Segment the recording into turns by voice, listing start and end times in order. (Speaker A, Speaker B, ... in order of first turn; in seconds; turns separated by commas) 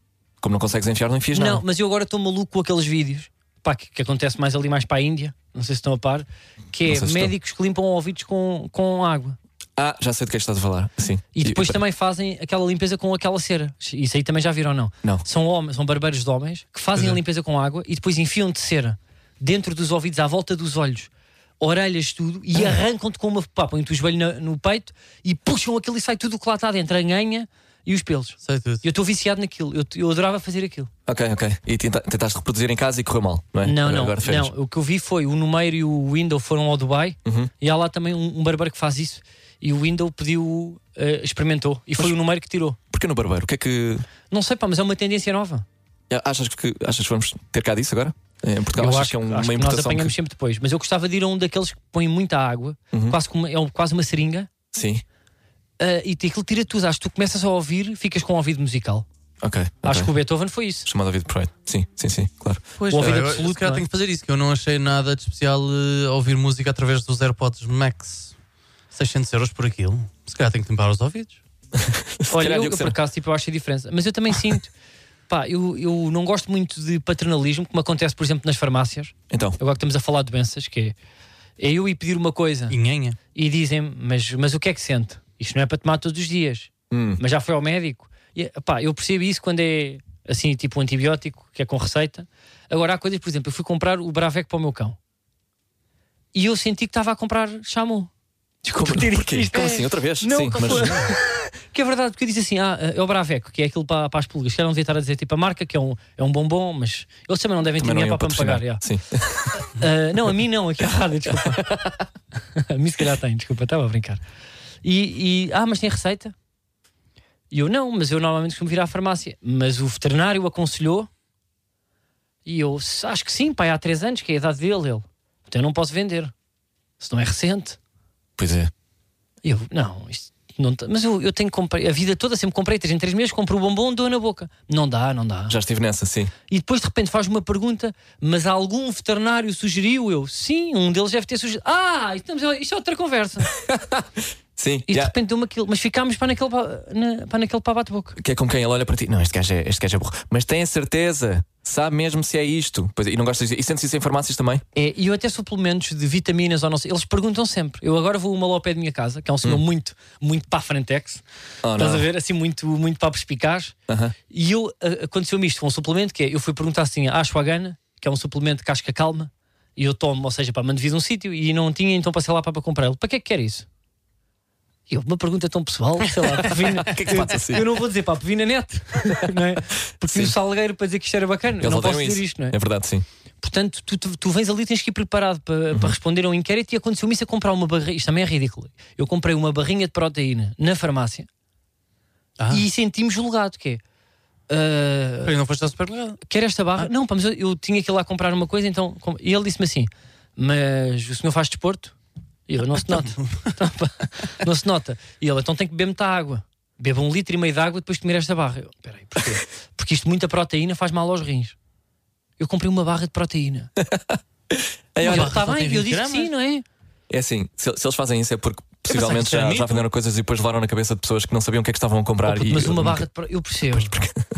Speaker A: 0.4-1.6, Speaker B: 1.3-9.4, Speaker A: 6.8-7.3, Speaker A: 9.8-11.8, Speaker B: 11.3-30.9, Speaker C: 28.4-28.8, Speaker A: 31.1-34.5, Speaker B: 33.6-42.8, Speaker A: 37.2-37.5, Speaker A: 42.9-44.0, Speaker B: 44.3-45.6, Speaker A: 46.1-50.1, Speaker B: 48.7-54.5, Speaker A: 52.9-53.2, Speaker A: 54.7-55.0, Speaker B: 55.8-59.0, Speaker A: 59.4-60.1, Speaker B: 59.8-60.9, Speaker A: 60.8-63.3, Speaker C: 62.8-68.3, Speaker B: 62.9-63.8, Speaker C: 68.9-71.4, Speaker A: 71.8-73.0, Speaker B: 72.3-74.7, Speaker B: 75.3-80.9, Speaker A: 79.3-79.6, Speaker B: 81.6-82.8, Speaker C: 82.7-83.2, Speaker B: 83.3-95.0, Speaker A: 86.9-87.2, Speaker B: 96.3-98.1, Speaker A: 98.6-101.1, Speaker B: 98.7-108.8, Speaker A: 107.8-109.7, Speaker B: 109.6-114.2, Speaker B: 114.8-116.3, Speaker B: 117.5-121.1, Speaker B: 122.4-126.3, Speaker B: 127.0-127.8, Speaker A: 128.4-128.7, Speaker B: 129.4-135.6, Speaker A: 135.5-136.3, Speaker B: 136.5-143.5, Speaker A: 143.6-145.1, Speaker B: 144.9-148.2, Speaker A: 148.2-154.6, Speaker B: 154.7-161.2, Speaker A: 161.6-162.1, Speaker B: 161.7-163.7, Speaker A: 163.9-164.1, Speaker B: 164.3-173.7, Speaker B: 174.9-182.6, Speaker A: 176.3-177.8, Speaker A: 179.1-179.3, Speaker A: 179.9-180.3, Speaker A: 181.6-183.1, Speaker B: 183.4-191.3, Speaker C: 192.4-192.6, Speaker B: 192.5-193.8, Speaker B: 194.5-195.3, Speaker C: 195.2-196.2, Speaker B: 196.2-201.9, Speaker B: 202.5-211.6, Speaker B: 212.4-213.7, Speaker A: 213.8-215.3, Speaker B: 215.0-216.6, Speaker C: 215.0-216.3, Speaker A: 217.1-223.1, Speaker C: 218.9-219.8, Speaker B: 222.2-223.9, Speaker A: 223.6-224.2